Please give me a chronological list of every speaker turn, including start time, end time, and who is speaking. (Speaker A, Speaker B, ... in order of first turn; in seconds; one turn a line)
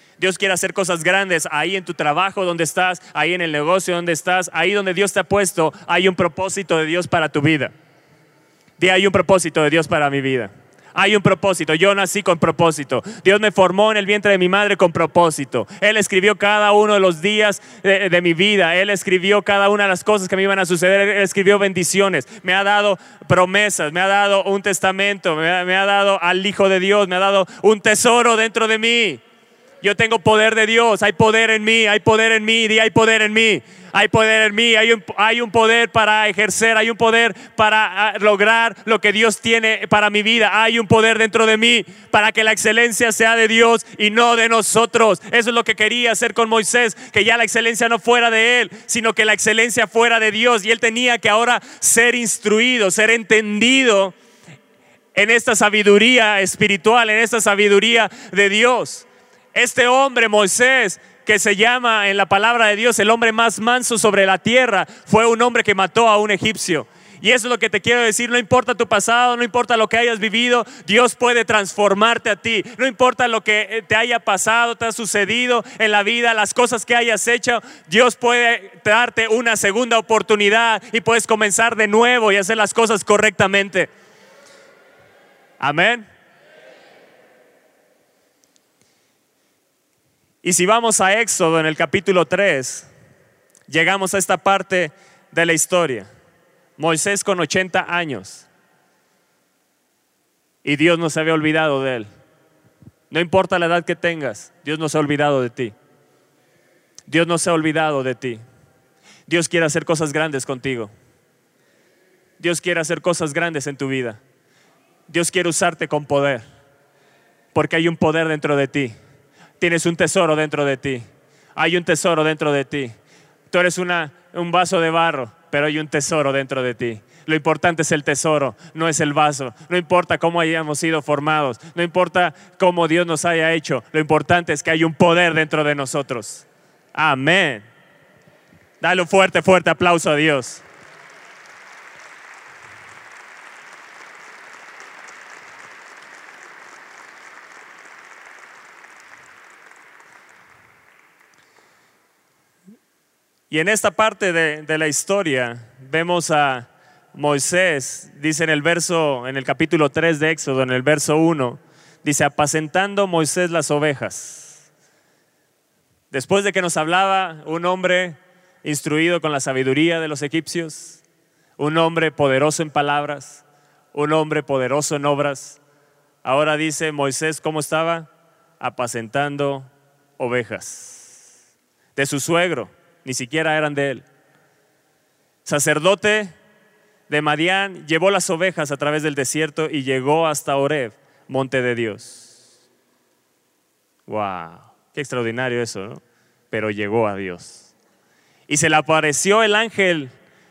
Speaker A: 0.2-7.7
Speaker A: 8.8-29.2
Speaker A: 29.8-54.1
Speaker A: 55.1-83.9
Speaker A: 85.6-86.1
Speaker A: 90.4-92.9
Speaker A: 93.7-96.1
Speaker A: 96.8-98.5
Speaker A: 100.6-102.1
Speaker A: 103.1-105.8
Speaker A: 107.1-108.4
Speaker A: 109.3-110.9
Speaker A: 112.4-114.2
Speaker A: 115.1-116.4
Speaker A: 117.5-119.0
Speaker A: 119.6-121.0
Speaker A: 121.6-123.0
Speaker A: 123.5-137.7
Speaker A: 138.8-140.6
Speaker A: 153.5-164.6
Speaker A: 166.1-171.0
Speaker A: 171.6-173.4
Speaker A: 173.9-175.6
Speaker A: 176.2-179.7
Speaker A: 180.2-181.2
Speaker A: 182.0-184.1
Speaker A: 185.4-186.3
Speaker A: 187.1-192.4
Speaker A: 194.1-197.7
Speaker A: 198.5-200.1